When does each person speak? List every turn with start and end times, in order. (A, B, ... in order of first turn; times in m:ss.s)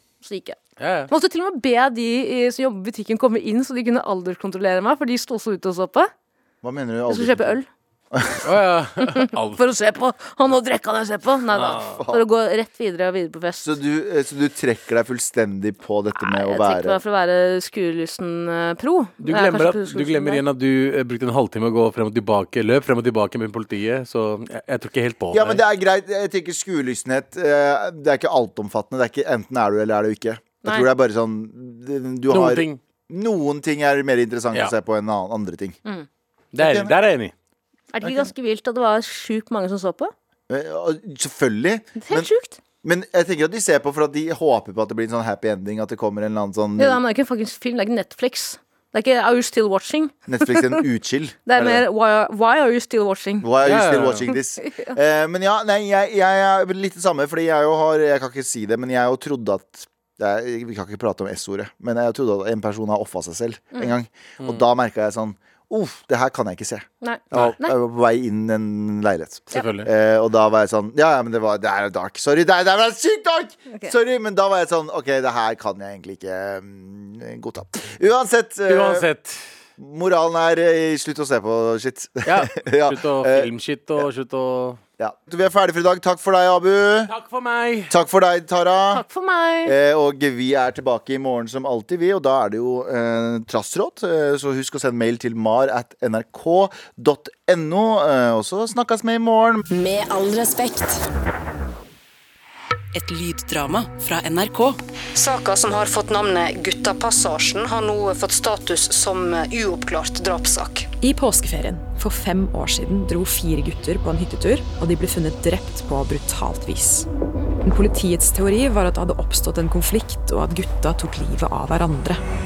0:00.2-0:00.6 A
0:00.8-0:01.1 B
0:01.1-0:06.1 A
0:06.6-0:07.5 C
0:07.1-0:07.7 A
0:08.1-0:08.5 C
0:08.4-0:09.6 B
0:09.0-0:13.7 A
0:11.5-0:12.0 B
0:11.9-0:12.2 C
0:13.6-0:17.0 C
0:16.2-0:20.4 A
0:19.2-0:25.6 B
0:25.3-0:35.8 C
0:30.6-0:30.9 A
0:32.3-0:32.8 B
0:36.5-0:37.3 B
0:36.6-0:36.9 C
0:37.9-0:40.1 A
0:38.0-0:38.3 C
0:40.5-0:42.3 C
0:42.0-0:42.6 A
0:42.8-0:47.0 C
0:46.8-0:50.8 A
0:50.3-0:51.8 C
0:51.5-0:55.0 A
0:53.4-1:19.1 C
0:53.6-0:54.3 B
1:04.4-1:04.7 B
1:07.0-1:07.8 A
1:09.5-1:09.9 B
1:18.7-1:19.4 B
1:19.8-1:24.1 C
1:22.2-1:24.8 B
1:25.0-1:27.1 C
1:27.1-1:28.0 B
1:27.9-1:29.0 C
1:28.9-1:29.7 A
1:29.6-1:39.6 C
1:39.7-1:41.0 D
1:42.9-1:44.8 D
1:45.1-1:50.9 E
1:51.0-1:57.1 F
1:57.6-2:02.2 F